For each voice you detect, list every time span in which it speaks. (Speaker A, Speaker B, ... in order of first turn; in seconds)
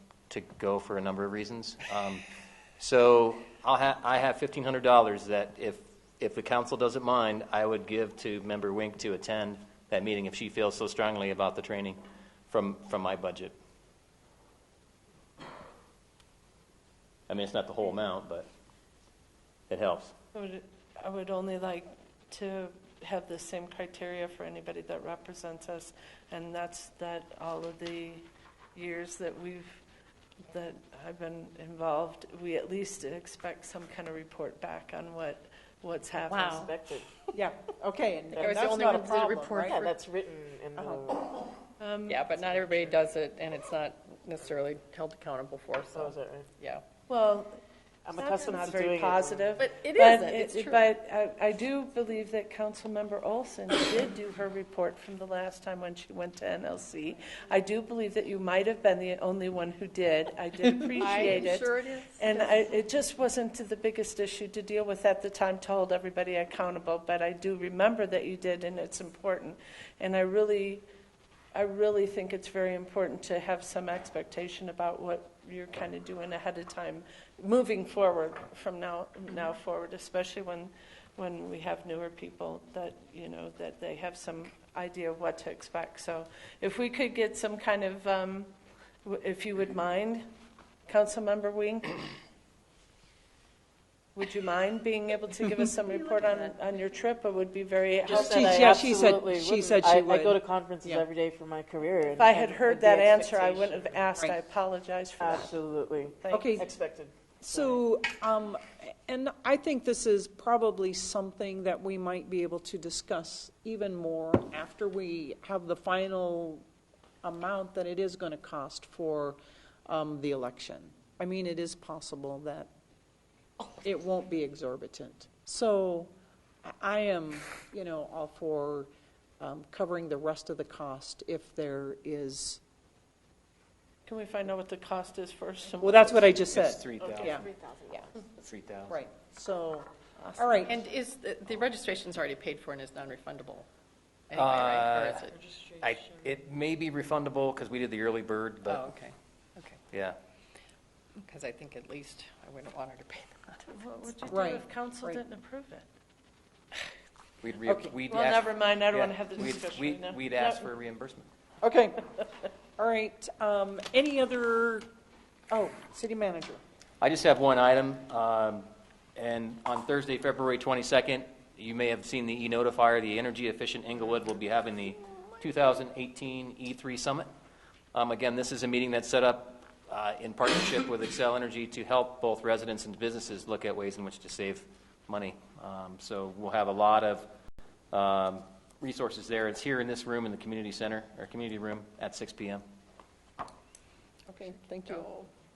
Speaker A: 0.3-2.2, 2.8-13.5, 17.3-18.5, 19.7-20.1, 136.5-137.4, 138.4-138.9, 144.3-148.8, 149.9-150.2, 157.4-161.3, 167.0-177.3, 177.9-187.3, 187.9-192.6
Speaker B: 20.3-29.8, 30.4-36.7, 41.8-43.0, 47.1-47.5, 48.1-70.8, 71.5-88.5, 89.0-90.2, 90.9-92.0, 94.2-98.8, 102.2-105.6, 106.2-106.6, 134.1-136.4, 153.7-155.9, 158.1-160.2
Speaker C: 36.3-36.7, 38.4-39.9, 42.0-46.8, 49.6-50.8, 61.0-62.8, 95.9-96.5, 140.7-143.7, 144.3-145.4, 148.7-149.8, 151.2-153.7, 194.8-195.2
Speaker D: 36.5-37.1, 38.3-39.1, 39.6-41.5, 45.9-46.5, 48.0-49.6, 98.1-104.0, 105.2-107.8, 137.0-138.1
Speaker E: 37.3-39.9, 40.8-41.0, 98.1-101.0, 106.3-106.7, 107.4-116.6, 117.2-122.7, 123.8-126.1, 126.7-128.9, 129.4-132.6, 135.8-138.0, 138.9-140.8, 154.3-155.2, 157.7-157.9, 161.6-162.0, 162.8-164.9, 165.5-166.6, 194.3-195.2